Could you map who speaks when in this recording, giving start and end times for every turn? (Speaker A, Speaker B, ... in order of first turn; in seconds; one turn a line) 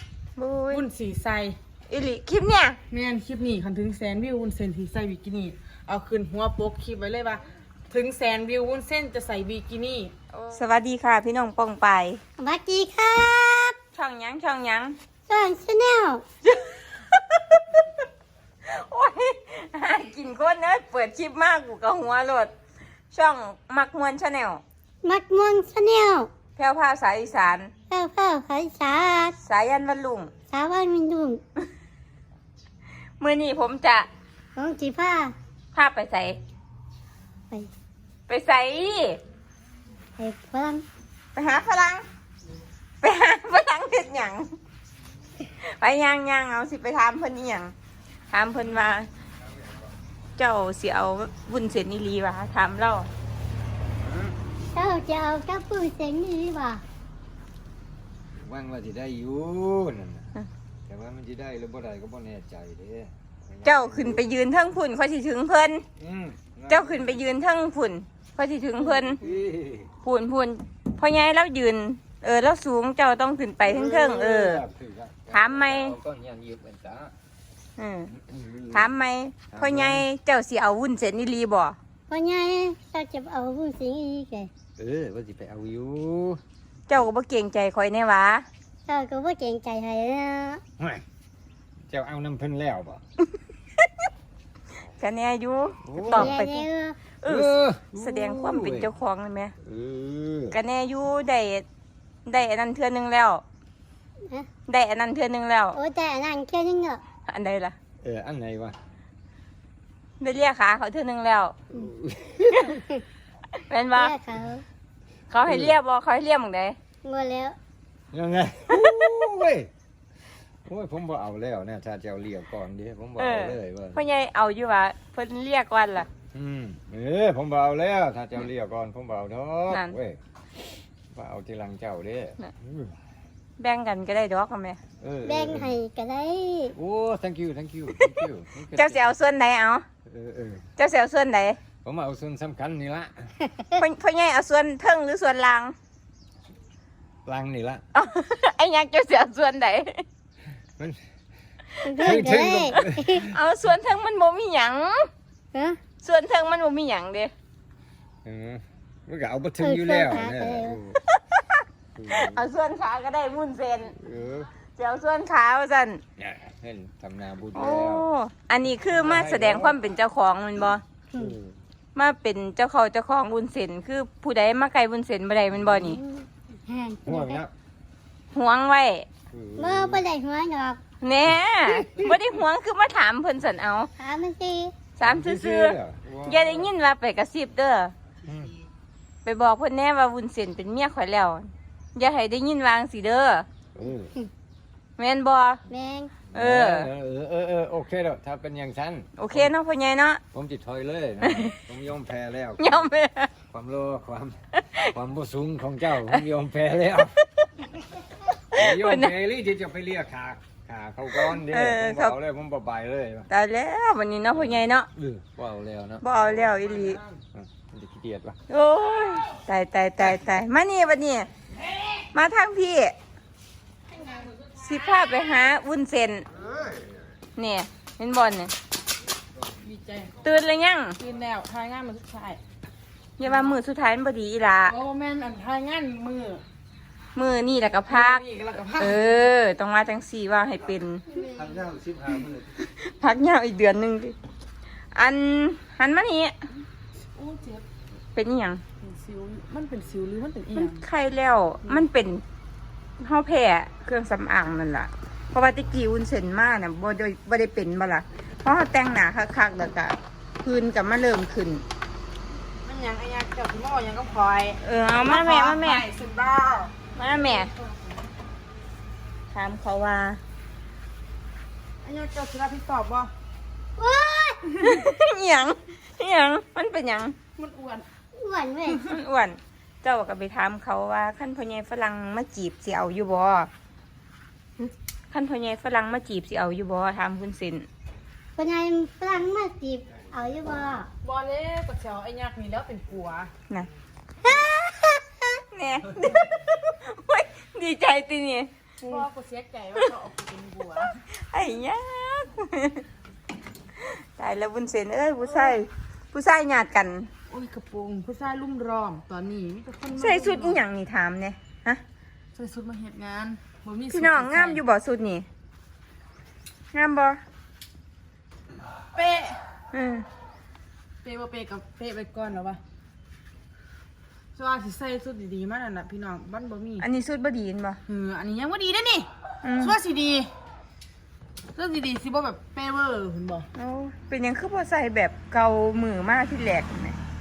Speaker A: 0.4-0.9
Speaker B: 0.7-1.6
Speaker A: 1.9-2.8
Speaker B: 2.9-10.1
Speaker A: 10.4-12.2
Speaker C: 12.4-13.8
Speaker A: 13.9-15.0
Speaker C: 15.3-16.2
Speaker A: 16.5-17.8
Speaker A: 18.6-22.5
Speaker A: 23.1-24.6
Speaker C: 25.0-26.3
Speaker A: 26.6-27.7
Speaker C: 27.9-29.4
Speaker A: 29.4-30.3
Speaker C: 30.5-31.4
Speaker A: 33.2-34.1
Speaker C: 34.5-35.3
Speaker A: 35.7-36.4
Speaker A: 38.3-39.2
Speaker C: 40.2-40.8
Speaker A: 41.3-42.0
Speaker A: 43.0-44.5
Speaker A: 45.6-47.7
Speaker A: 48.3-49.1
Speaker A: 50.4-53.1
Speaker D: 54.0-54.3
Speaker C: 54.7-56.8
Speaker D: 58.4-60.3
Speaker D: 60.9-64.2
Speaker A: 63.6-65.8
Speaker D: 66.0-67.2
Speaker A: 66.7-69.2
Speaker D: 68.9-69.9
Speaker A: 70.0-74.6
Speaker D: 73.6-77.1
Speaker A: 75.3-76.0
Speaker A: 77.8-78.1
Speaker D: 78.2-78.9
Speaker A: 78.7-81.8
Speaker D: 79.5-80.0
Speaker C: 82.1-84.5
Speaker D: 84.8-86.4
Speaker A: 86.9-88.5
Speaker C: 88.9-90.6
Speaker D: 91.9-93.0
Speaker A: 95.0-96.6
Speaker D: 95.8-96.4
Speaker C: 96.1-97.0
Speaker A: 97.2-99.5
Speaker D: 97.2-98.9
Speaker D: 99.6-100.6
Speaker A: 100.5-101.6
Speaker A: 102.2-103.4
Speaker C: 104.2-104.5
Speaker A: 104.7-105.8
Speaker C: 105.7-107.0
Speaker A: 107.3-107.8
Speaker D: 108.0-108.8
Speaker A: 110.2-111.5
Speaker D: 111.7-112.8
Speaker A: 113.7-114.1
Speaker C: 113.9-114.6
Speaker A: 115.3-116.8
Speaker D: 115.5-115.7
Speaker C: 117.0-117.6
Speaker D: 118.1-119.7
Speaker A: 118.7-119.1
Speaker D: 120.7-124.0
Speaker A: 123.2-126.1
Speaker D: 126.3-130.2
Speaker A: 129.7-129.9
Speaker D: 131.1-132.9
Speaker A: 133.6-134.8
Speaker D: 135.0-135.7
Speaker C: 135.2-136.7
Speaker D: 136.7-139.0
Speaker A: 138.7-139.8
Speaker D: 140.1-140.7
Speaker A: 140.8-141.6
Speaker D: 141.8-143.3
Speaker A: 143.8-145.7
Speaker D: 147.2-147.8
Speaker A: 147.9-150.0
Speaker A: 151.8-152.2
Speaker C: 151.8-153.3
Speaker D: 152.0-153.2
Speaker A: 153.2-155.1
Speaker C: 155.5-155.8
Speaker A: 156.0-157.3
Speaker D: 158.2-161.0
Speaker C: 159.6-160.8
Speaker D: 161.9-162.4
Speaker A: 162.1-163.9
Speaker D: 164.0-164.5
Speaker A: 164.8-166.0
Speaker D: 166.2-168.1
Speaker A: 167.5-170.8
Speaker D: 168.8-169.8
Speaker D: 171.2-171.6
Speaker A: 171.9-176.0
Speaker C: 175.8-177.4
Speaker D: 177.1-177.5
Speaker A: 178.3-179.1
Speaker D: 179.3-180.0
Speaker C: 179.6-180.8
Speaker A: 181.0-183.9
Speaker C: 184.0-184.7
Speaker A: 184.9-187.9
Speaker D: 185.0-186.7
Speaker D: 188.2-188.5
Speaker A: 189.2-193.5
Speaker D: 193.7-194.1
Speaker A: 195.0-195.6
Speaker C: 195.7-196.2
Speaker D: 196.3-199.5
Speaker A: 196.3-196.9
Speaker A: 199.2-200.2
Speaker D: 200.3-202.9
Speaker A: 201.2-201.5
Speaker A: 202.6-203.3
Speaker D: 203.5-207.2
Speaker A: 204.5-204.9
Speaker D: 208.5-213.3
Speaker A: 208.5-209.1
Speaker A: 211.2-212.2
Speaker A: 213.3-214.9
Speaker D: 214.3-216.1
Speaker A: 216.0-217.0
Speaker D: 217.3-218.4
Speaker A: 218.5-221.3
Speaker A: 222.1-222.9
Speaker B: 223.9-224.5
Speaker A: 224.6-226.2
Speaker A: 227.3-228.5
Speaker B: 229.6-230.2
Speaker A: 230.2-231.0
Speaker B: 231.0-232.4
Speaker A: 233.2-234.7
Speaker B: 233.2-233.6
Speaker B: 234.7-236.4
Speaker A: 237.2-238.2
Speaker B: 237.9-239.0
Speaker A: 238.8-241.0
Speaker B: 241.1-241.6
Speaker A: 242.1-244.2
Speaker A: 244.9-246.4
Speaker B: 247.1-247.7
Speaker A: 248.2-248.6
Speaker B: 248.8-250.8
Speaker A: 250.6-252.2
Speaker A: 253.0-261.6
Speaker B: 262.6-267.8
Speaker A: 264.6-265.8
Speaker A: 266.9-267.5
Speaker A: 269.3-270.2
Speaker B: 271.8-273.1
Speaker C: 273.8-274.4
Speaker A: 274.6-277.1
Speaker B: 277.4-277.9
Speaker C: 278.1-278.8
Speaker A: 278.9-283.5
Speaker A: 284.6-287.7
Speaker C: 288.4-290.9
Speaker B: 291.0-293.3
Speaker C: 294.2-295.3
Speaker A: 295.5-299.0
Speaker B: 298.8-301.0
Speaker A: 301.2-302.8
Speaker A: 303.8-307.1
Speaker B: 305.3-305.6
Speaker B: 307.3-310.6
Speaker A: 309.9-311.8
Speaker B: 312.3-314.6
Speaker A: 313.9-315.3
Speaker A: 316.7-317.2
Speaker B: 318.9-319.4
Speaker A: 319.7-320.1
Speaker B: 321.0-322.6
Speaker B: 324.3-326.9
Speaker A: 326.8-327.8
Speaker B: 327.9-330.3
Speaker A: 329.4-329.8
Speaker B: 331.5-333.5
Speaker A: 333.5-337.0